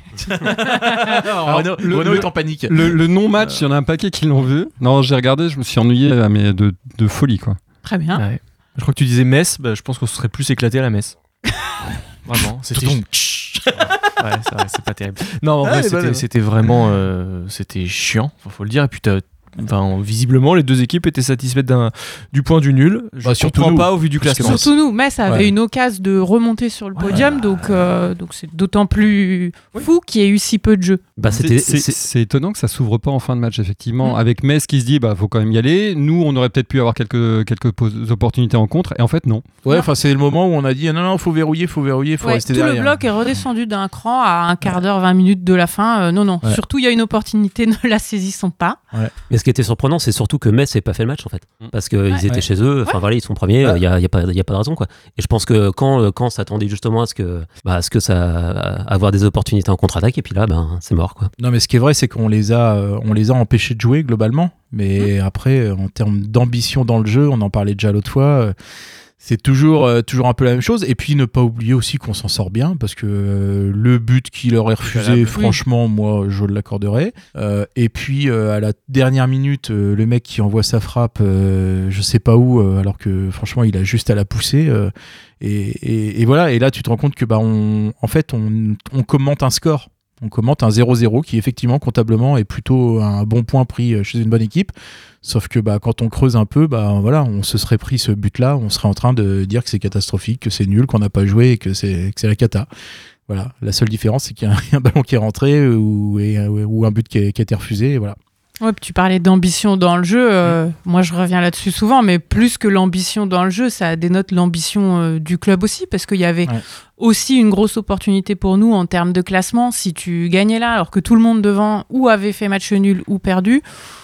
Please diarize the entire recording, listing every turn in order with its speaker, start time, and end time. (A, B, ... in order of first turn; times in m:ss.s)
0:00.3-0:03.0 A
0:00.3-0:01.1 B
0:01.3-0:07.6 C
0:07.8-0:08.2 B
0:08.1-0:11.2 D
0:12.2-0:13.0 D
0:12.7-0:13.9 A
0:13.9-0:24.6 D
0:15.6-0:16.2 A
0:23.2-0:24.7 A
0:24.4-0:31.0 B
0:25.2-0:25.5 A
0:31.2-0:32.0 E
0:31.3-0:39.5 C
0:39.6-0:43.0 A
0:42.2-0:48.8 B
0:49.3-1:01.3 E
1:01.4-1:08.5 A
1:09.2-1:34.7 A
1:14.8-1:15.6 D
1:35.2-1:42.7 A
1:43.3-1:48.2 A
1:48.6-2:03.6 B